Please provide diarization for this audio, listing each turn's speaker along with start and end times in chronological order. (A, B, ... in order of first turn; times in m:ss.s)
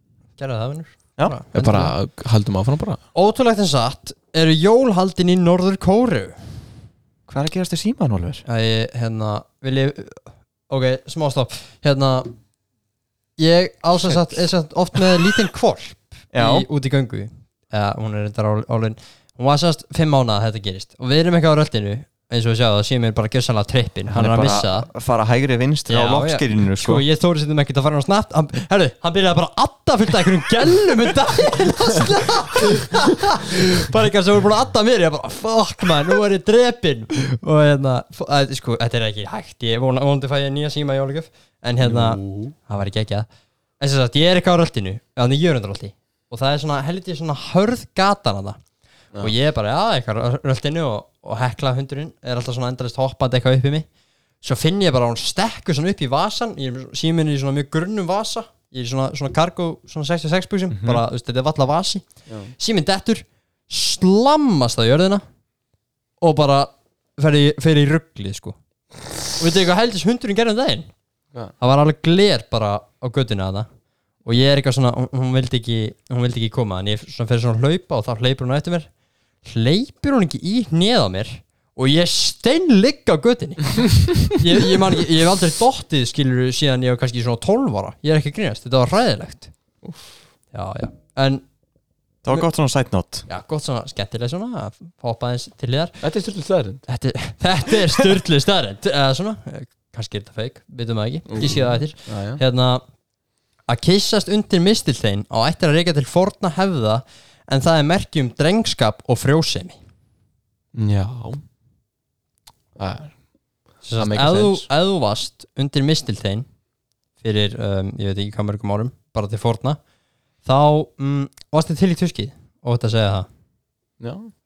0:00.4-0:01.9 A
0:01.5-0:03.0 B
0:03.1-0:06.4 A
0:07.3-0:08.4 C
0:08.4-0:12.3 A
0:13.4-0:24.9 A
0:16.3-0:16.7 C
0:24.1-0:27.0 C
0:25.9-0:43.3 A
0:41.8-0:42.5 B
0:43.8-0:48.6 A
0:49.2-0:53.8 A
0:54.4-1:02.0 A
1:00.7-1:01.0 C
1:02.6-1:05.2 A
1:06.2-1:08.6 A
1:09.4-1:10.9 A
1:11.6-1:13.7 A
1:14.2-1:18.9 A
1:19.4-1:29.5 A
1:29.8-1:30.1 B
1:30.5-1:31.4 A
1:32.2-1:33.2 C
1:33.3-1:36.0 A
1:36.0-1:36.8 B
1:36.9-1:42.8 A
1:41.3-1:42.4 B
1:43.7-1:49.8 A
1:50.7-1:51.4 B
1:52.8-1:53.1 B
1:53.8-1:56.4 A
1:54.0-1:54.7 B
1:57.2-1:59.8 A
2:00.4-2:03.3 A
2:04.0-2:04.3 B